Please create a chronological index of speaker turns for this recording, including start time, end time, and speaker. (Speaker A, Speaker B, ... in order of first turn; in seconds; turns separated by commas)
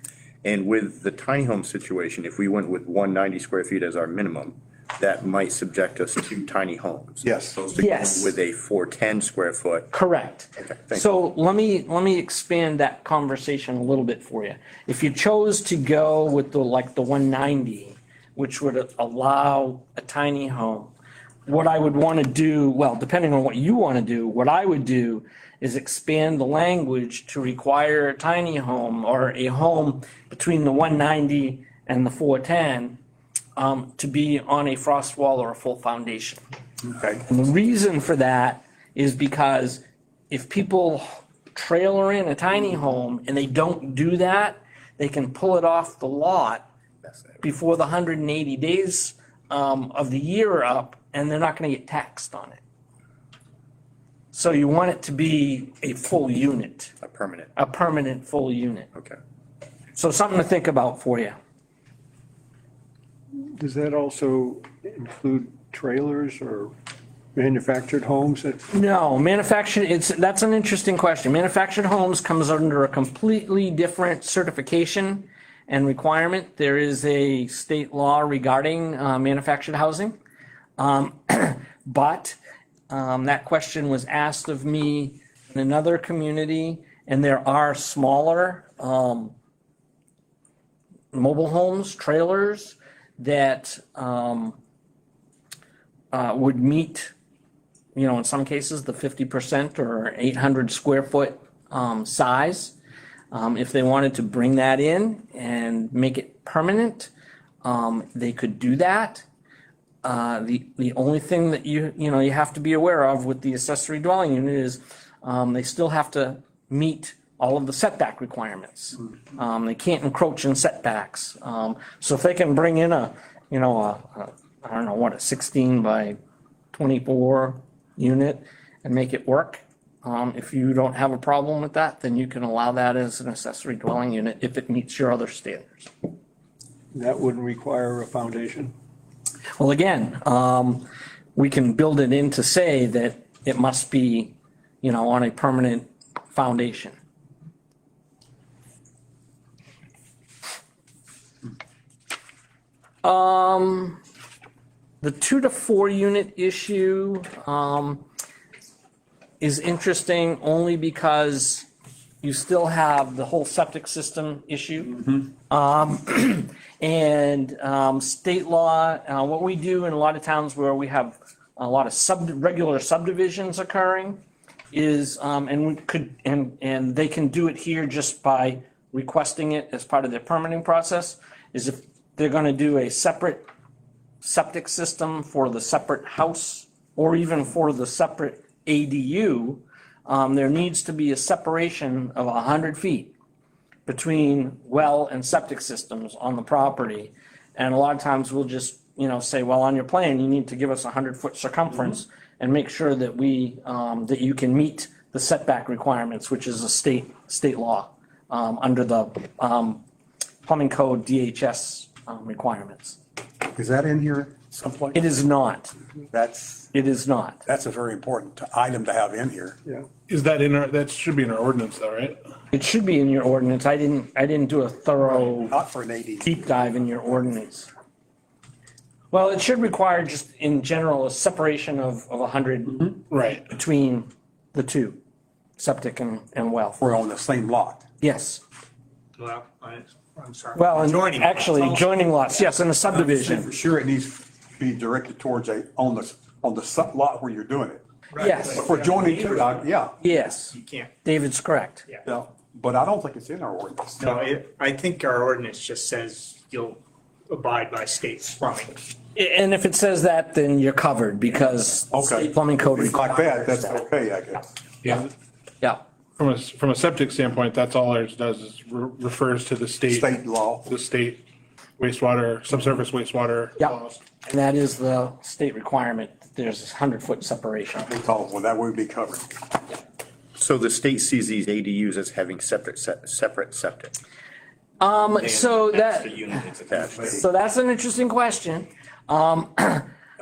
Speaker A: 0.4-9.9, Speaker B: 7.2-7.6, Speaker C: 7.7-8.3, Speaker C: 9.9-20.9, Speaker C: 21.5-33.0, Speaker C: 33.5-36.4, Speaker B: 36.9-37.2, Speaker C: 37.2-46.6, Speaker C: 47.4-52.6, Speaker C: 54.3-56.9, Speaker A: 57.0-57.5, Speaker C: 57.5-58.9, Speaker C: 60.0-61.4, Speaker D: 63.4-66.7, Speaker D: 67.3-68.6, Speaker C: 68.7-80.2, Speaker C: 80.8-82.4, Speaker C: 82.9-89.3, Speaker C: 91.1-94.6, Speaker C: 96.1-97.1, Speaker C: 98.0-102.8, Speaker C: 103.3-107.1, Speaker C: 107.6-109.2, Speaker C: 110.0-126.2, Speaker C: 126.7-135.9, Speaker D: 136.9-138.7, Speaker C: 139.6-147.0, Speaker C: 153.0-154.0, Speaker C: 155.0-158.1, Speaker C: 159.4-161.7, Speaker C: 162.2-174.2, Speaker C: 174.7-183.5, Speaker C: 184.2-193.1, Speaker C: 193.9-209.8, Speaker C: 210.5-213.0, Speaker B: 213.5-215.0, Speaker C: 214.9-215.8, Speaker B: 216.1-216.7, Speaker C: 216.7-217.4, Speaker B: 217.5-219.6, Speaker E: 220.1-222.2, Speaker C: 222.5-225.6, Speaker B: 225.4-226.4, Speaker C: 226.2-227.7, Speaker C: 229.1-235.0, Speaker E: 233.1-233.4, Speaker C: 235.6-236.8, Speaker B: 236.8-237.8, Speaker C: 238.0-238.4, Speaker F: 239.2-241.9, Speaker C: 240.6-243.5, Speaker B: 243.1-247.8, Speaker F: 248.1-249.6, Speaker C: 248.2-248.7, Speaker B: 248.4-249.9, Speaker C: 250.0-251.9, Speaker F: 250.5-250.9, Speaker B: 252.1-254.0, Speaker F: 254.0-258.9, Speaker C: 259.1-263.8, Speaker B: 261.9-264.5, Speaker E: 264.8-265.1, Speaker E: 266.2-270.1, Speaker B: 269.9-270.7, Speaker E: 270.7-271.2, Speaker E: 271.8-274.0, Speaker C: 273.6-277.9, Speaker B: 277.9-279.3, Speaker A: 280.4-283.9, Speaker C: 284.8-286.4, Speaker A: 285.2-287.2, Speaker B: 286.9-287.2, Speaker C: 287.1-289.9